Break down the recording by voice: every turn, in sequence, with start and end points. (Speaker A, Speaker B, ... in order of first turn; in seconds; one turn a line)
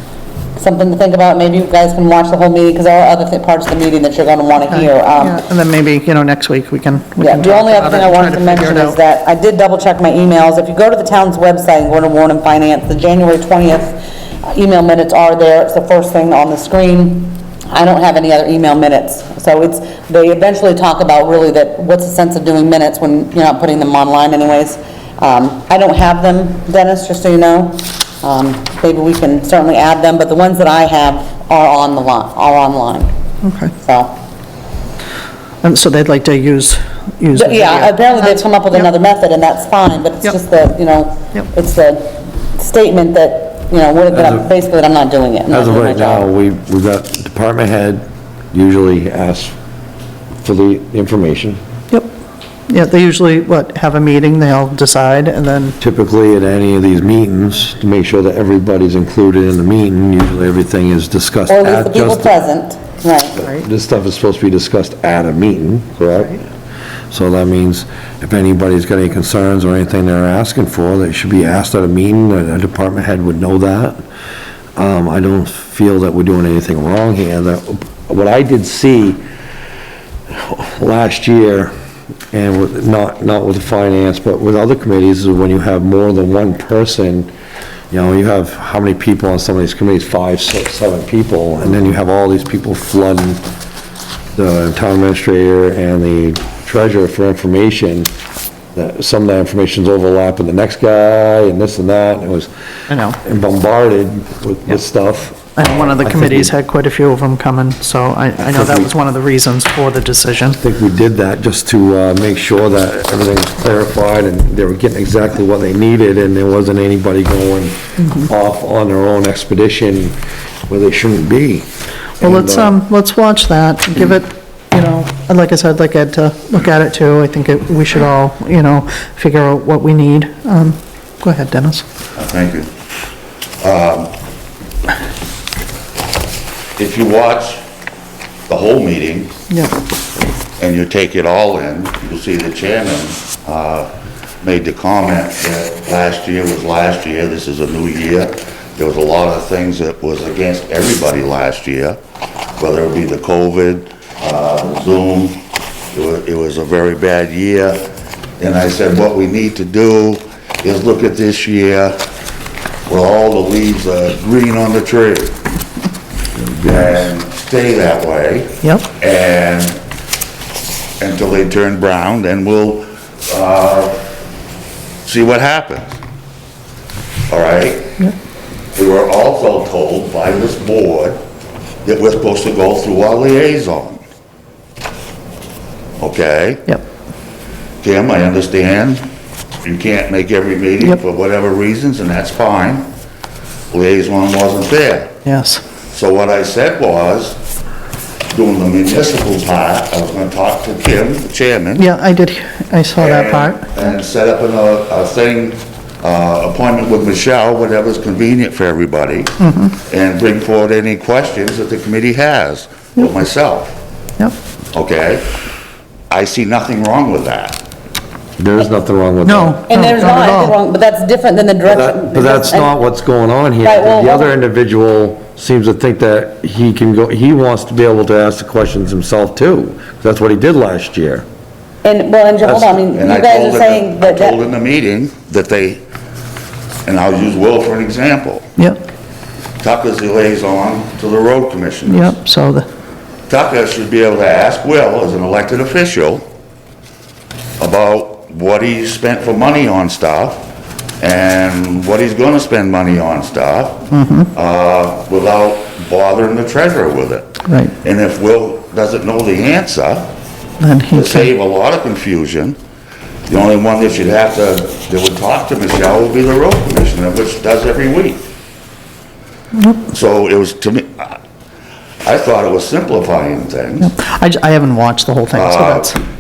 Speaker A: 0.6-5.4
Speaker B: 4.7-9.0
Speaker A: 7.2-33.1
Speaker B: 33.4-33.7
Speaker A: 33.8-34.2
Speaker B: 35.6-38.9
Speaker A: 37.3-46.3
Speaker C: 45.5-49.5
Speaker C: 50.4-51.6
Speaker B: 52.7-55.8
Speaker C: 55.8-62.3
Speaker A: 61.5-63.4
Speaker C: 63.4-66.4
Speaker C: 67.1-74.0
Speaker C: 74.8-79.2
Speaker C: 80.3-81.7
Speaker C: 82.3-87.3
Speaker C: 87.9-93.4
Speaker C: 94.3-98.1
Speaker C: 98.7-102.5
Speaker B: 102.9-103.2
Speaker C: 103.2-106.5
Speaker B: 105.5-110.6
Speaker C: 108.4-108.9
Speaker C: 110.6-120.2
Speaker B: 118.0-118.3
Speaker C: 120.7-121.7
Speaker C: 122.2-122.8
Speaker B: 122.2-131.8
Speaker D: 132.2-132.7
Speaker D: 133.6-134.1
Speaker D: 136.8-137.6
Speaker D: 138.5-139.3
Speaker D: 140.6-143.9
Speaker D: 144.4-152.0
Speaker D: 152.6-155.4
Speaker D: 155.9-157.8
Speaker D: 158.4-162.0
Speaker D: 162.8-165.4
Speaker C: 166.4-166.7
Speaker D: 166.6-169.8
Speaker D: 171.0-174.0
Speaker D: 175.0-176.0
Speaker D: 177.3-178.0
Speaker D: 178.8-181.2
Speaker D: 181.8-184.0
Speaker D: 186.0-186.6
Speaker D: 187.8-189.1
Speaker D: 189.6-192.9
Speaker D: 193.7-195.1
Speaker B: 195.2-195.6
Speaker D: 195.9-197.4
Speaker D: 198.3-201.9
Speaker B: 201.8-203.8
Speaker D: 203.0-213.8
Speaker B: 209.4-209.7
Speaker D: 214.7-215.3
Speaker D: 216.1-217.6
Speaker C: 218.4-219.6
Speaker B: 219.2-220.6
Speaker A: 219.7-222.8
Speaker C: 221.7-231.2
Speaker A: 223.6-224.3
Speaker A: 231.8-234.4
Speaker C: 232.4-232.8
Speaker D: 232.9-235.8
Speaker D: 236.8-238.4
Speaker D: 239.6-242.1
Speaker B: 241.8-242.7
Speaker D: 243.3-246.2
Speaker D: 247.6-250.5
Speaker D: 251.0-260.1
Speaker B: 253.9-254.3
Speaker B: 257.4-257.7
Speaker B: 260.6-261.3
Speaker D: 260.9-262.6
Speaker D: 263.3-268.3
Speaker B: 269.6-269.8
Speaker D: 269.9-271.2
Speaker D: 272.0-273.9
Speaker B: 273.8-276.0
Speaker D: 275.3-275.9